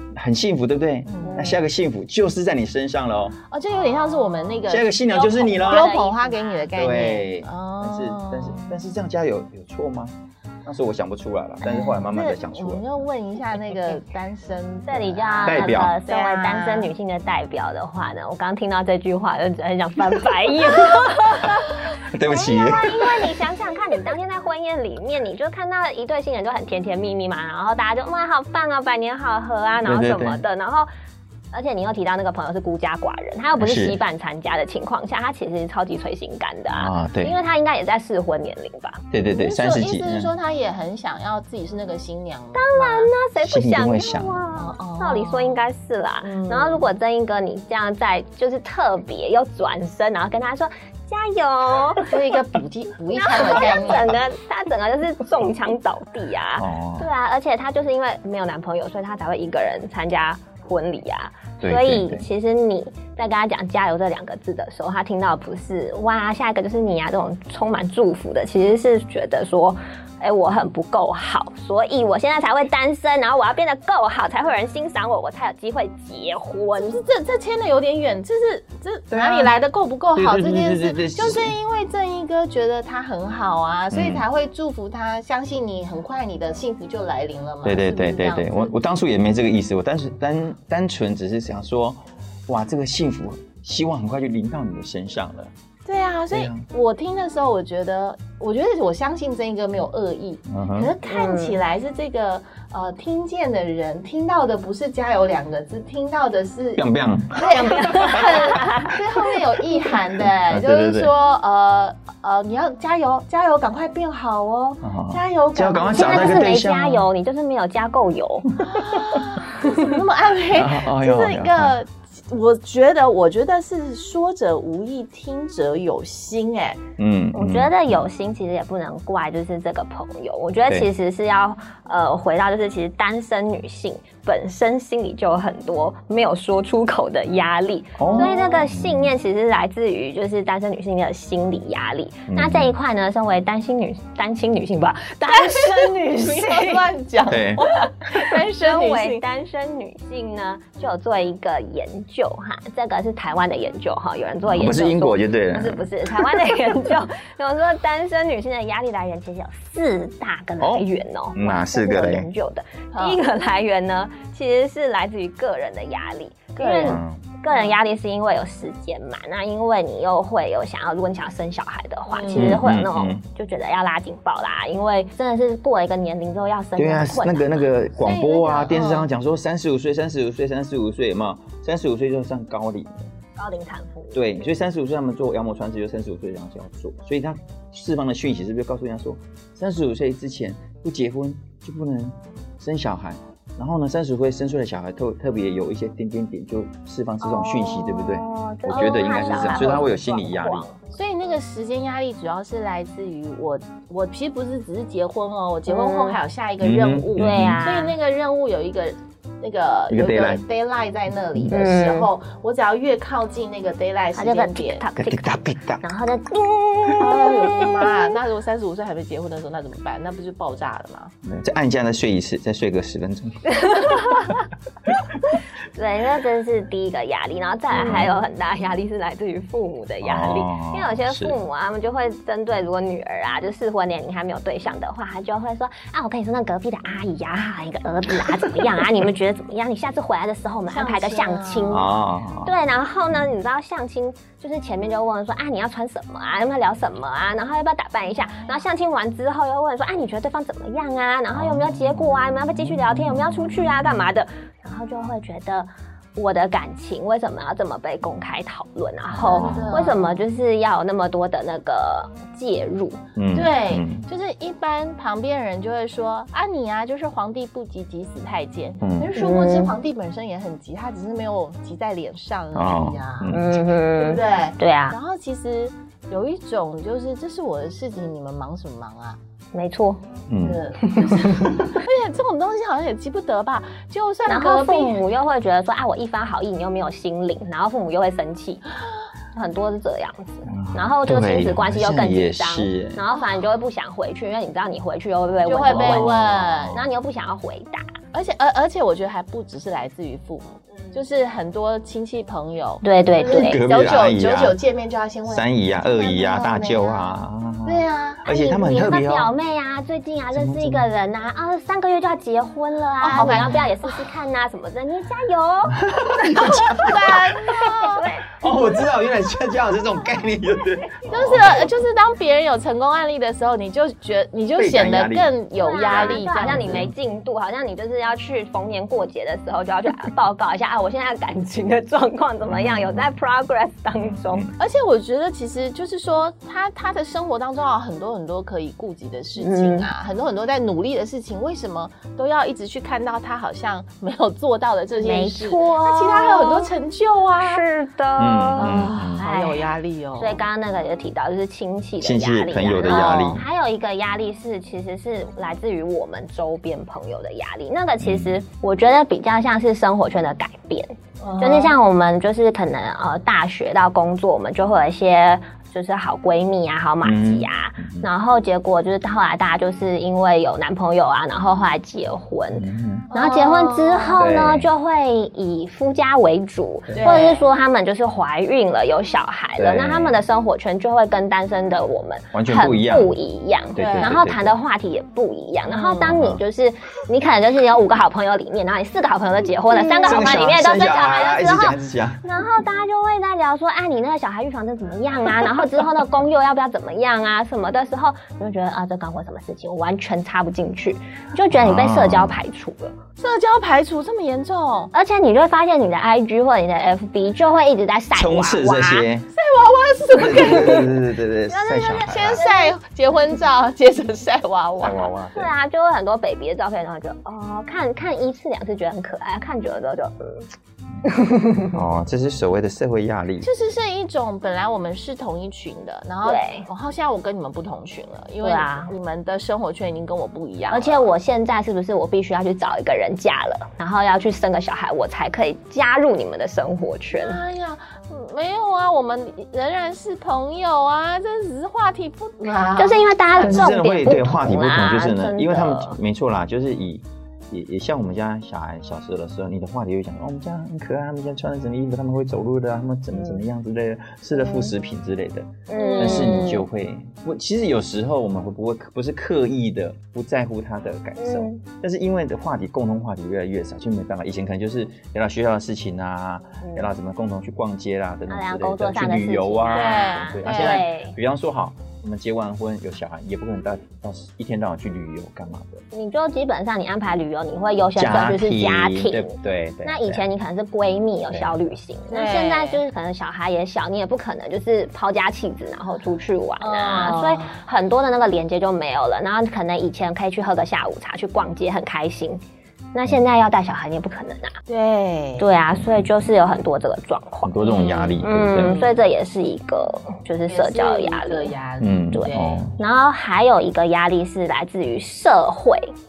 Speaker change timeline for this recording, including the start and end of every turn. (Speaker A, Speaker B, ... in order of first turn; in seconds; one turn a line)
Speaker A: 0.2-3.4
Speaker B: 1.1-1.5
Speaker B: 3.5-8.8
Speaker A: 4.6-5.9
Speaker C: 5.1-6.7
Speaker A: 6.7-13.1
Speaker B: 11.6-16.9
Speaker C: 14.9-30.9
Speaker A: 15.4-16.0
Speaker A: 21.4-23.3
Speaker A: 29.8-30.4
Speaker C: 31.5-39.0
Speaker A: 33.6-34.0
Speaker A: 36.7-37.4
Speaker A: 39.1-40.3
Speaker B: 39.2-43.1
Speaker C: 42.5-52.1
Speaker A: 43.4-44.5
Speaker B: 44.6-45.6
Speaker B: 46.2-46.9
Speaker B: 52.1-54.2
Speaker C: 53.2-77.0
Speaker A: 56.6-57.1
Speaker A: 61.6-62.2
Speaker B: 76.8-88.7
Speaker A: 79.1-79.5
Speaker A: 80.2-81.6
Speaker A: 83.9-84.2
Speaker A: 87.6-95.5
Speaker B: 95.9-116.5
Speaker A: 96.3-96.7
Speaker A: 100.5-100.9
Speaker C: 101.0-101.6
Speaker A: 106.8-108.9
Speaker C: 107.7-108.9
Speaker A: 110.5-111.1
Speaker A: 114.8-117.1
Speaker C: 115.9-118.6
Speaker B: 118.6-126.8
Speaker A: 120.5-121.8
Speaker A: 127.0-127.8
Speaker C: 127.3-146.8
Speaker A: 138.0-139.1
Speaker B: 138.1-138.7
Speaker A: 142.3-142.7
Speaker B: 145.3-149.2
Speaker A: 147.3-147.7
Speaker C: 148.0-177.7
Speaker A: 154.4-155.9
Speaker A: 160.6-162.3
Speaker B: 162.9-163.2
Speaker B: 166.6-167.8
Speaker A: 166.8-167.3
Speaker B: 172.1-172.6
Speaker A: 172.3-173.2
Speaker A: 176.8-183.1
Speaker B: 178.0-179.1
Speaker C: 183.4-184.2
Speaker A: 184.1-200.7
Speaker C: 197.2-200.8
Speaker B: 198.7-199.9
Speaker B: 200.9-214.8
Speaker C: 205.7-206.2
Speaker A: 206.6-207.7
Speaker C: 207.2-207.9
Speaker A: 209.9-210.4
Speaker C: 211.5-212.1
Speaker C: 214.2-217.9
Speaker A: 215.0-215.8
Speaker B: 217.0-221.1
Speaker A: 221.2-224.1
Speaker C: 223.7-224.3
Speaker C: 225.7-241.9
Speaker A: 227.7-228.1
Speaker A: 230.0-231.4
Speaker B: 240.7-241.9
Speaker A: 241.7-242.5
Speaker C: 242.4-263.0
Speaker B: 248.3-248.6
Speaker A: 251.3-254.0
Speaker A: 259.1-259.8
Speaker B: 259.2-260.2
Speaker A: 263.1-264.1
Speaker B: 263.3-279.2
Speaker A: 268.8-269.1
Speaker C: 269.1-269.7
Speaker A: 272.5-273.6
Speaker C: 273.3-275.0
Speaker C: 279.5-280.0
Speaker A: 280.3-281.7
Speaker B: 280.4-285.0
Speaker C: 284.3-288.7
Speaker C: 289.3-297.9
Speaker A: 290.5-293.0
Speaker B: 295.5-296.8
Speaker A: 295.7-296.8
Speaker B: 298.1-308.2
Speaker C: 302.8-303.6
Speaker A: 303.3-304.6
Speaker A: 305.3-309.3
Speaker C: 308.2-316.5
Speaker A: 310.3-310.9
Speaker B: 313.0-313.9
Speaker A: 313.1-313.6
Speaker A: 315.8-317.3
Speaker B: 316.4-318.1
Speaker C: 317.9-318.2
Speaker A: 318.3-321.7
Speaker C: 320.9-321.4
Speaker B: 321.1-326.8
Speaker A: 324.6-325.3
Speaker C: 325.6-334.5
Speaker A: 325.8-326.9
Speaker A: 332.4-333.1
Speaker A: 333.9-334.6
Speaker B: 334.6-347.6
Speaker C: 339.4-339.9
Speaker C: 345.0-346.7
Speaker C: 347.4-402.9
Speaker A: 348.2-349.2
Speaker B: 348.6-350.4
Speaker A: 352.0-353.5
Speaker B: 352.9-353.3
Speaker A: 358.0-358.4
Speaker B: 361.2-361.8
Speaker A: 367.0-368.1
Speaker A: 372.5-373.1
Speaker B: 373.1-374.2
Speaker A: 374.2-374.7
Speaker B: 376.9-377.5
Speaker A: 379.6-380.2
Speaker A: 382.3-383.1
Speaker A: 383.8-384.6
Speaker B: 383.8-384.2
Speaker B: 385.7-386.2
Speaker A: 386.1-386.4
Speaker B: 389.7-390.2
Speaker A: 390.1-392.2
Speaker A: 401.5-402.4
Speaker B: 403.2-404.9
Speaker C: 404.9-409.1
Speaker A: 408.1-409.3
Speaker B: 409.3-411.0
Speaker A: 410.1-412.4
Speaker C: 411.5-412.8
Speaker B: 411.8-415.1
Speaker A: 414.8-415.5
Speaker C: 415.3-420.5
Speaker C: 421.1-421.7
Speaker A: 421.7-423.5
Speaker B: 423.4-431.1
Speaker C: 426.2-426.7
Speaker C: 428.4-428.9
Speaker C: 430.7-437.4
Speaker B: 437.1-443.7
Speaker C: 442.8-446.0
Speaker A: 443.4-475.8
Speaker C: 454.4-454.7
Speaker C: 455.7-456.6
Speaker B: 455.7-456.4
Speaker C: 461.2-461.6
Speaker C: 466.6-466.9
Speaker C: 468.3-471.1
Speaker B: 469.7-470.9
Speaker C: 475.9-492.4
Speaker A: 478.0-480.3
Speaker A: 481.3-481.6
Speaker B: 482.1-482.8
Speaker B: 486.6-487.5
Speaker C: 492.9-494.6
Speaker B: 494.7-495.5
Speaker C: 495.4-501.5
Speaker A: 495.8-496.1
Speaker A: 497.4-498.8
Speaker B: 498.6-499.0
Speaker B: 500.5-502.6
Speaker A: 501.8-502.8
Speaker C: 502.1-505.9